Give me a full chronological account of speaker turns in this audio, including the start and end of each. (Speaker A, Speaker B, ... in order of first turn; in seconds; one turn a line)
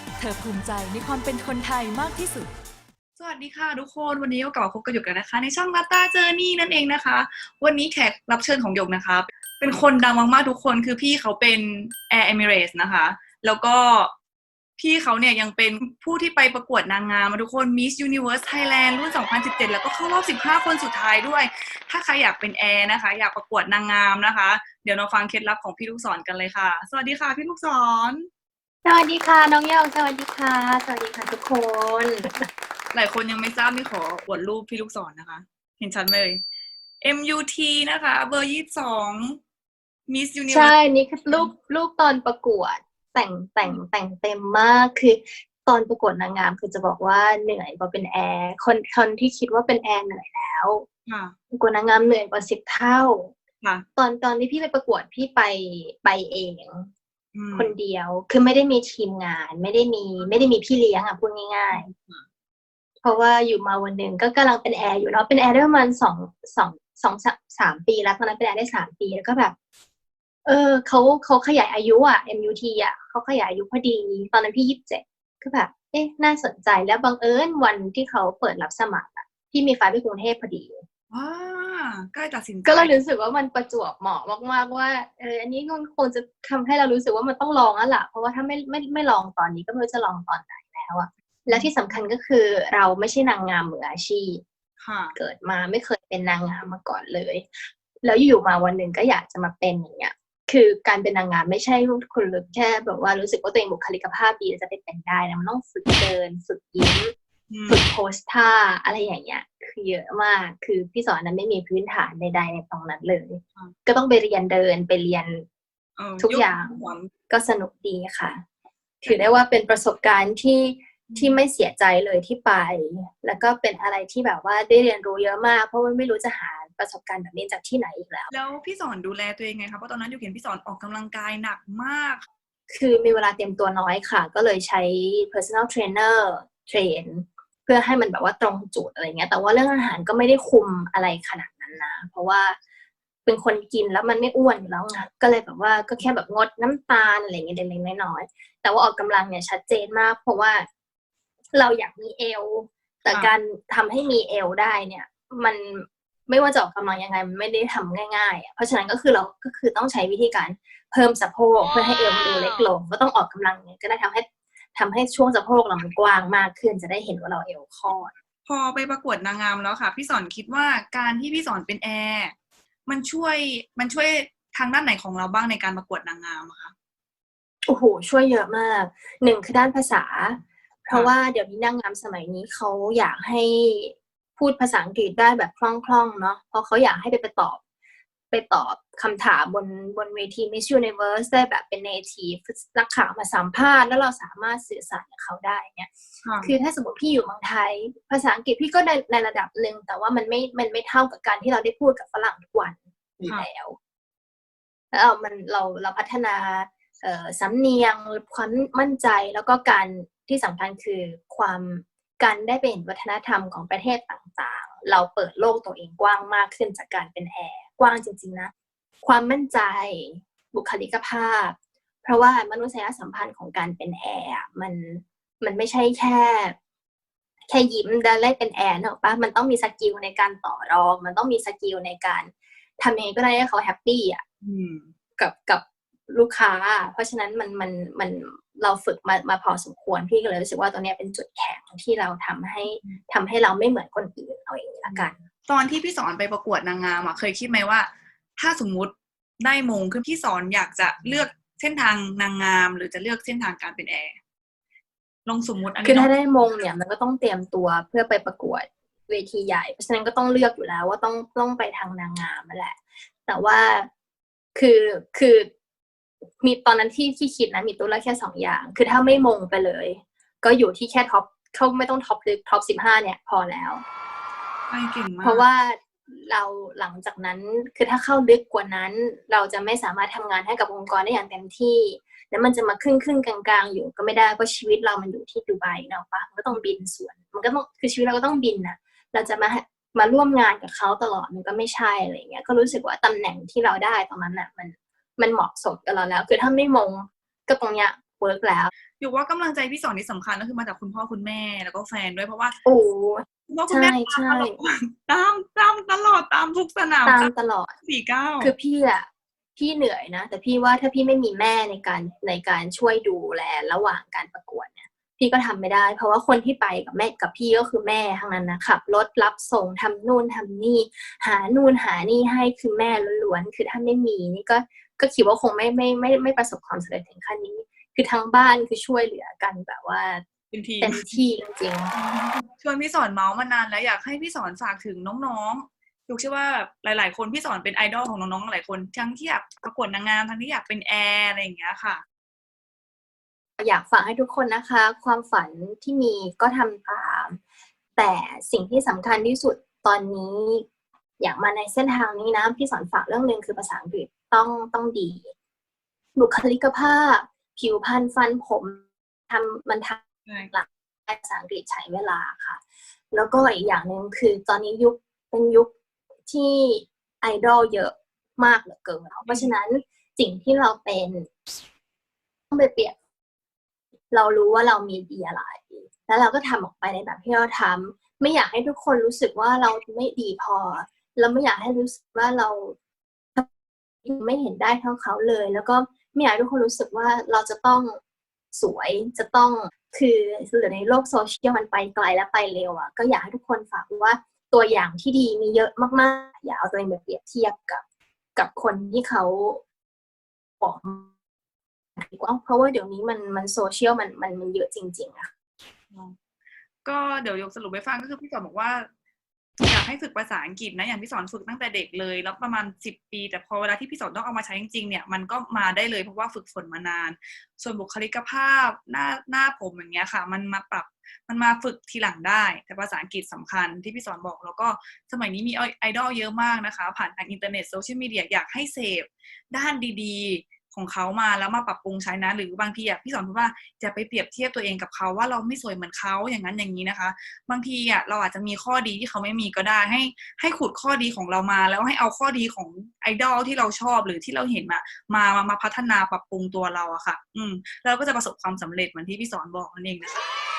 Speaker A: 0.2-2.5
Speaker B: 3.2-14.1
Speaker B: 14.8-28.3
Speaker C: 28.8-32.5
Speaker B: 32.9-36.4
Speaker B: 37.0-39.4
Speaker B: 40.1-40.7
Speaker C: 40.5-50.9
Speaker B: 51.1-51.3
Speaker C: 51.5-53.3
Speaker C: 54.0-56.9
Speaker B: 57.3-57.7
Speaker C: 57.5-61.9
Speaker B: 61.7-62.2
Speaker C: 63.0-69.5
Speaker C: 70.4-80.8
Speaker B: 81.1-82.9
Speaker C: 82.6-94.4
Speaker B: 94.8-95.1
Speaker C: 95.1-107.1
Speaker B: 107.5-107.8
Speaker C: 107.7-115.5
Speaker B: 116.0-117.1
Speaker C: 116.2-118.4
Speaker C: 119.0-128.3
Speaker B: 121.1-121.4
Speaker B: 128.3-132.2
Speaker C: 132.7-142.6
Speaker C: 143.2-150.7
Speaker C: 151.5-168.1
Speaker B: 168.4-172.3
Speaker B: 172.9-176.7
Speaker C: 177.7-187.6
Speaker C: 188.3-203.8
Speaker B: 196.2-196.5
Speaker C: 204.9-218.5
Speaker C: 219.0-226.6
Speaker C: 227.5-234.2
Speaker B: 234.4-234.9
Speaker C: 235.2-245.2
Speaker B: 242.7-243.0
Speaker B: 244.9-254.2
Speaker B: 255.2-256.1
Speaker C: 255.8-263.9
Speaker C: 264.5-265.5
Speaker C: 266.4-273.8
Speaker B: 274.7-275.4
Speaker C: 275.2-298.7
Speaker B: 299.0-302.6
Speaker C: 302.6-304.6
Speaker B: 303.5-307.3
Speaker C: 307.0-307.7
Speaker B: 307.8-308.5
Speaker C: 308.4-330.2
Speaker B: 330.5-331.2
Speaker C: 330.8-331.9
Speaker B: 331.9-342.0
Speaker C: 343.6-347.4
Speaker C: 348.0-350.6
Speaker C: 351.2-355.3
Speaker C: 356.1-365.7
Speaker C: 366.3-371.3
Speaker C: 372.5-372.9
Speaker C: 374.1-382.8
Speaker C: 384.0-388.0
Speaker C: 388.5-397.8
Speaker C: 398.4-399.6
Speaker C: 400.6-401.1
Speaker C: 402.0-405.3
Speaker B: 406.8-408.9
Speaker B: 409.6-450.2